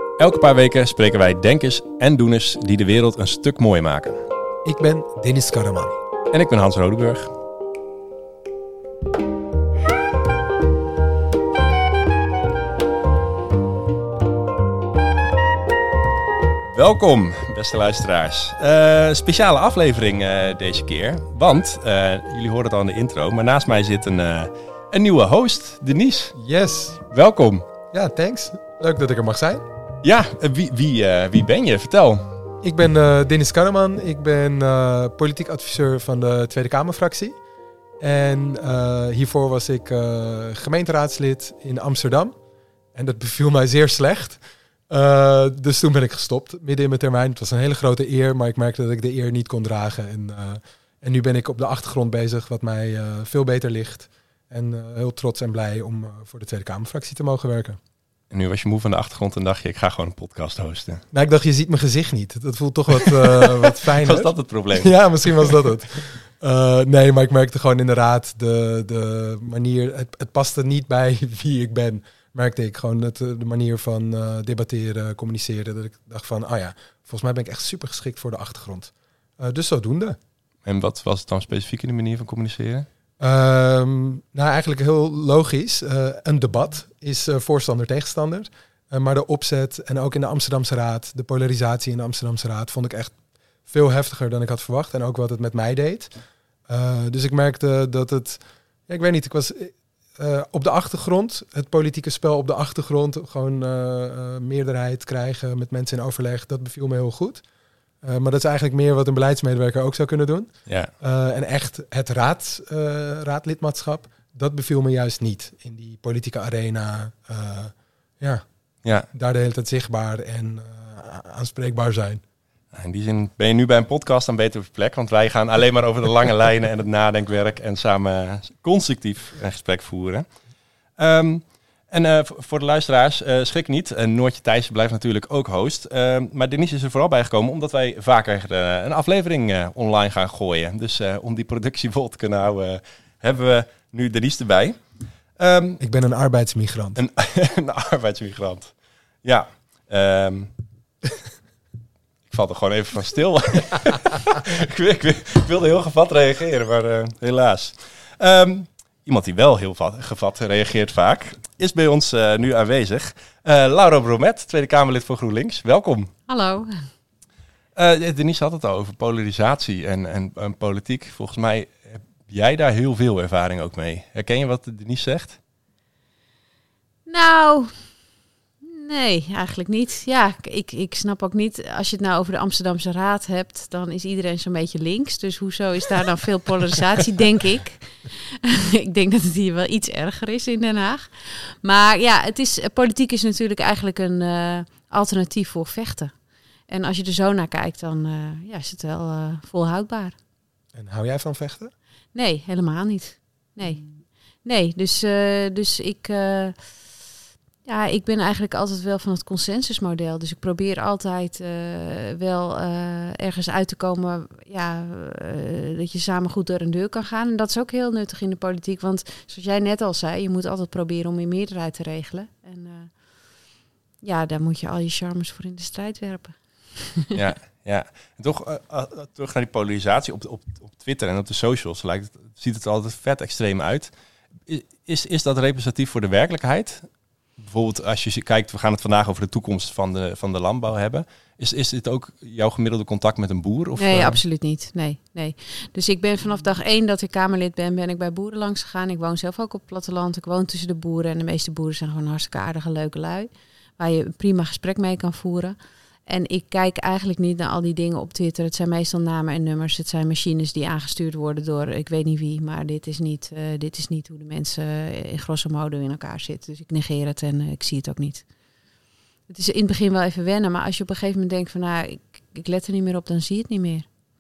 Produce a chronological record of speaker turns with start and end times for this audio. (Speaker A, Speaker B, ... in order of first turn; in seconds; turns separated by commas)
Speaker A: 0.2-4.2, Speaker B: 4.6-6.0, Speaker A: 6.3-7.3, Speaker A: 16.7-26.4, Speaker B: 26.4-27.0, Speaker A: 27.1-27.6, Speaker B: 27.9-29.6, Speaker A: 30.0-32.3, Speaker B: 32.6-37.4, Speaker B: 38.0-42.3, Speaker B: 43.0-57.8, Speaker A: 58.3-61.0, Speaker B: 61.1-80.2, Speaker A: 63.0-65.4, Speaker A: 80.7-82.9, Speaker B: 83.2-93.2, Speaker B: 93.7-96.1, Speaker B: 96.7-107.4, Speaker B: 108.0-118.5, Speaker B: 119.1-122.2, Speaker A: 122.7-130.3, Speaker A: 131.0-144.8, Speaker A: 145.4-145.8, Speaker B: 145.8-147.0, Speaker A: 147.0-148.7, Speaker A: 149.2-150.5, Speaker A: 152.3-166.1, Speaker C: 166.3-166.7, Speaker A: 167.8-175.4, Speaker C: 177.1-177.7, Speaker C: 178.7-196.1, Speaker C: 196.7-200.2, Speaker B: 200.7-201.7, Speaker C: 202.1-203.8, Speaker C: 204.4-206.6, Speaker C: 207.7-222.9, Speaker C: 224.0-227.2, Speaker A: 227.1-233.9, Speaker A: 234.5-236.9, Speaker A: 237.4-244.2, Speaker C: 243.8-255.6, Speaker C: 256.1-268.2, Speaker C: 269.3-273.9